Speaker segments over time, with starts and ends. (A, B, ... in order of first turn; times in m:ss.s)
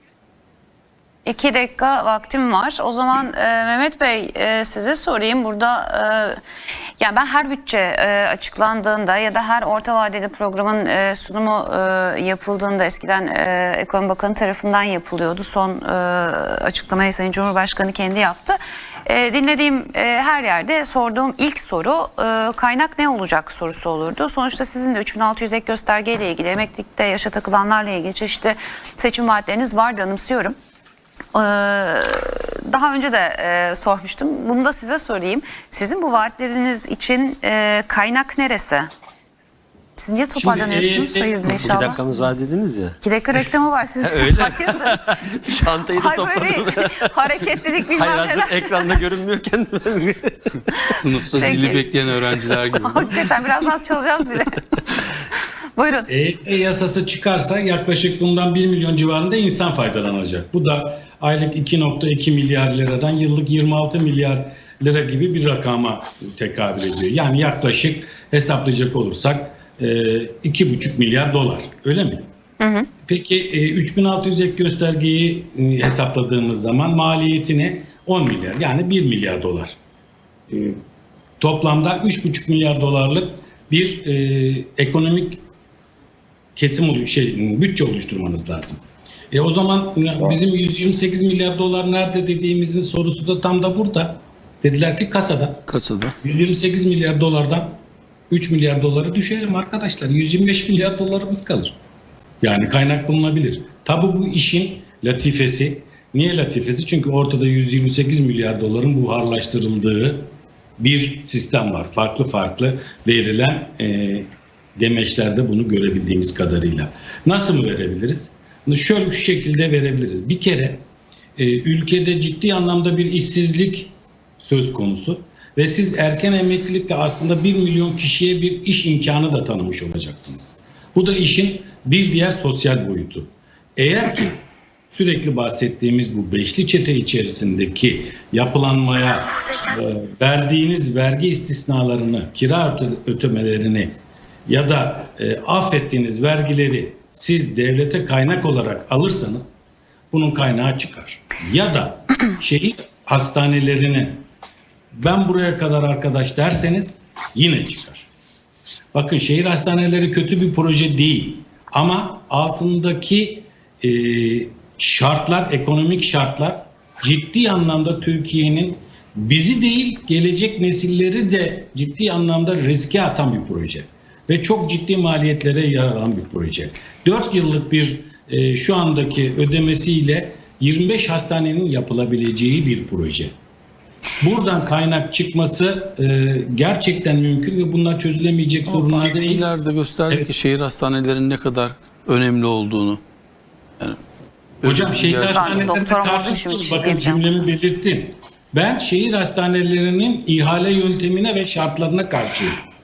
0:01.2-0:06.4 A
0:07.0-0:30.6 A
0:31.3-0:38.9 A
0:40.0-0:42.0 A
0:40.4-0:41.8 B
0:41.6-0:43.0 C
0:43.0-0:45.1 A
0:44.0-0:50.9 C
0:45.9-0:49.0 A
0:50.7-0:51.9 A
0:51.0-0:53.3 D
0:52.8-0:54.6 A
0:55.8-0:56.1 A
0:56.1-1:12.3 B
1:12.6-1:12.9 A
1:13.0-1:19.8 B
1:20.5-1:20.8 B
1:21.4-1:25.4 B
1:26.6-1:35.6 B
1:35.7-1:36.2 D
1:36.2-1:37.8 B
1:38.3-1:41.8 B
1:42.4-2:00.8 B
2:01.4-2:14.4 B
2:14.9-2:29.5 B
2:30.1-2:34.2 B
2:34.9-2:38.1 B
2:38.9-3:03.3 B
3:04.2-3:09.4 B
3:08.7-3:13.0 D
3:14.6-3:15.7 D
3:14.6-3:22.6 B
3:15.3-3:17.4 A